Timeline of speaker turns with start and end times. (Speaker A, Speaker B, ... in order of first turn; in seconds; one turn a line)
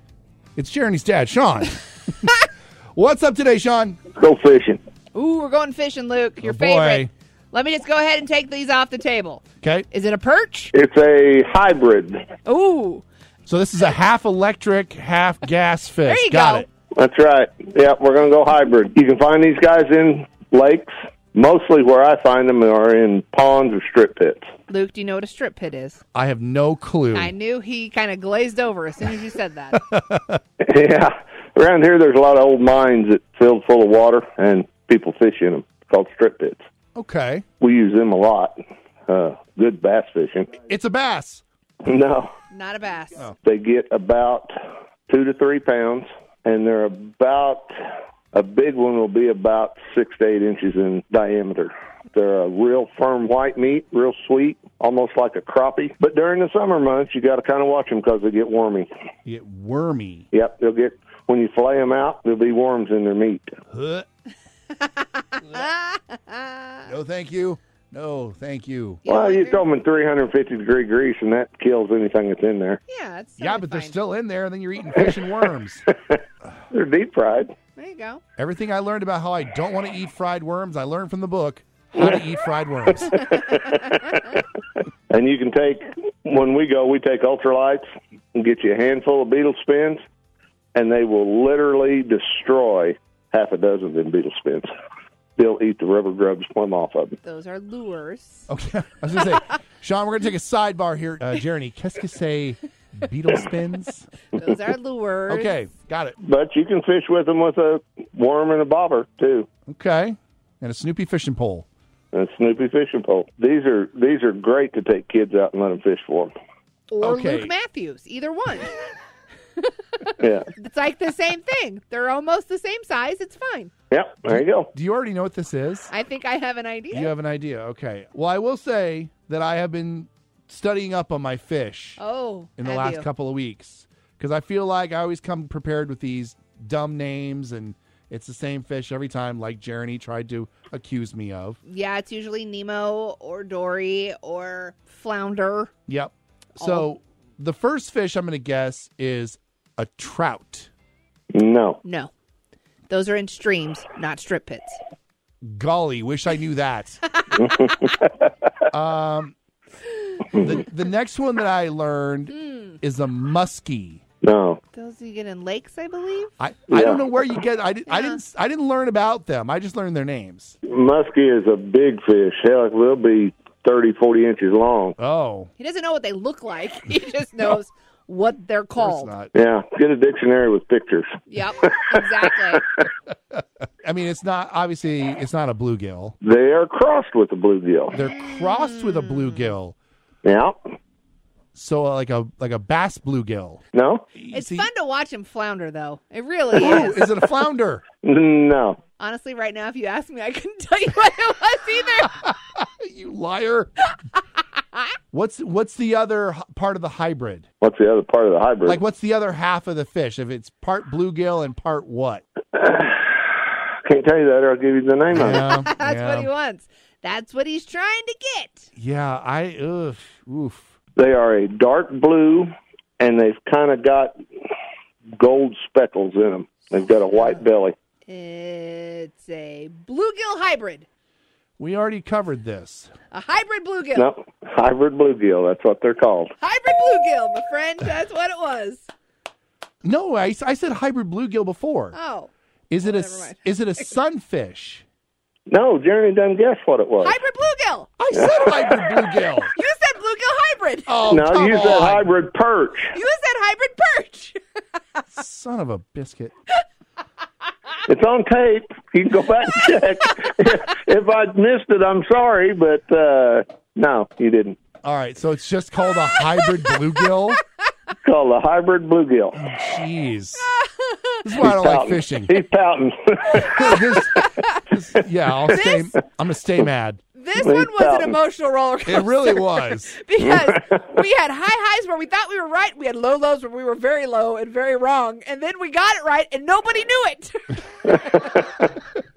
Speaker A: 0.6-2.3
Speaker A: 3.0-4.0
Speaker B: 4.2-4.8
Speaker C: 5.1-10.7
Speaker A: 6.4-7.1
Speaker A: 9.6-9.9
Speaker B: 10.7-12.3
Speaker C: 12.4-13.1
Speaker A: 13.5-16.7
Speaker C: 16.1-16.7
Speaker B: 17.0-24.5
Speaker C: 24.7-26.0
Speaker A: 26.1-27.3
Speaker C: 27.1-29.8
Speaker A: 29.7-30.4
Speaker B: 30.6-36.6
Speaker A: 37.0-37.5
Speaker B: 37.6-38.6
Speaker B: 39.1-40.5
Speaker A: 40.6-41.4
Speaker B: 41.8-42.3
Speaker C: 42.5-43.3
Speaker B: 43.4-44.5
Speaker B: 45.1-47.7
Speaker B: 48.3-58.9
Speaker A: 59.2-60.3
Speaker B: 60.3-63.5
Speaker A: 63.7-64.1
Speaker C: 64.8-66.9
Speaker A: 66.9-69.0
Speaker C: 69.0-69.7
Speaker B: 69.1-72.8
Speaker C: 72.9-74.0
Speaker A: 73.4-75.9
Speaker B: 75.0-75.4
Speaker B: 76.7-77.5
Speaker C: 77.8-78.2
Speaker A: 78.4-83.3
Speaker B: 83.0-84.0
Speaker B: 85.1-90.0
Speaker B: 90.7-94.7
Speaker B: 95.4-97.2
Speaker C: 97.2-98.5
Speaker A: 98.5-104.1
Speaker C: 104.3-105.6
Speaker A: 105.3-106.2
Speaker B: 106.2-109.5
Speaker A: 109.7-111.7
Speaker B: 112.1-116.3
Speaker C: 116.9-118.7
Speaker A: 117.0-117.5
Speaker C: 119.6-123.7
Speaker B: 120.2-120.5
Speaker B: 123.9-124.7
Speaker A: 124.3-125.9
Speaker C: 125.9-127.1
Speaker A: 126.9-132.0
Speaker C: 132.0-133.1
Speaker A: 132.6-141.6
Speaker C: 141.7-145.7
Speaker A: 145.9-150.7
Speaker C: 146.6-146.9
Speaker B: 151.3-151.8
Speaker C: 151.8-152.1
Speaker C: 152.9-154.8
Speaker A: 155.4-157.0
Speaker B: 157.3-158.1
Speaker A: 158.7-159.3
Speaker A: 160.4-164.0
Speaker C: 162.3-162.8
Speaker B: 164.2-164.6
Speaker C: 164.7-166.3
Speaker A: 166.4-170.6
Speaker B: 166.7-167.1
Speaker C: 167.9-168.2
Speaker B: 170.7-175.0
Speaker A: 175.0-175.5
Speaker C: 175.6-179.1
Speaker A: 178.8-179.3
Speaker B: 179.3-182.0
Speaker C: 181.3-182.6
Speaker A: 183.3-186.2
Speaker B: 186.2-188.0
Speaker A: 187.9-189.8
Speaker C: 187.9-189.5
Speaker B: 190.2-190.6
Speaker A: 191.5-193.6
Speaker B: 193.7-194.1
Speaker A: 194.2-194.7
Speaker C: 194.3-197.1
Speaker A: 196.5-197.8
Speaker B: 198.0-198.8
Speaker C: 199.0-202.2
Speaker A: 202.2-203.7
Speaker A: 205.1-207.5
Speaker B: 207.6-208.8
Speaker A: 208.7-212.2
Speaker B: 212.5-213.3
Speaker B: 213.9-215.5
Speaker A: 215.1-216.3
Speaker C: 215.4-218.7
Speaker A: 218.8-220.7
Speaker B: 221.0-224.2
Speaker B: 225.1-227.8
Speaker C: 228.1-230.9
Speaker A: 231.6-232.9
Speaker C: 233.1-234.1
Speaker B: 233.9-236.3
Speaker C: 236.4-238.9
Speaker A: 239.8-242.0
Speaker C: 241.9-243.4
Speaker A: 242.7-244.8
Speaker B: 245.5-247.2
Speaker C: 247.0-247.9
Speaker A: 248.0-249.5
Speaker B: 248.1-248.6
Speaker C: 249.6-251.8
Speaker A: 250.9-252.1
Speaker B: 251.1-252.9
Speaker C: 252.9-254.4
Speaker A: 255.1-256.3
Speaker B: 257.9-264.6
Speaker A: 264.8-267.4
Speaker B: 268.0-269.4
Speaker A: 269.4-270.5
Speaker C: 270.5-271.2
Speaker A: 271.2-272.3
Speaker B: 271.4-273.8
Speaker A: 273.3-277.0
Speaker C: 273.7-274.5
Speaker C: 275.5-275.9
Speaker C: 277.1-288.3
Speaker B: 277.4-278.2
Speaker A: 278.9-280.0
Speaker B: 280.3-280.8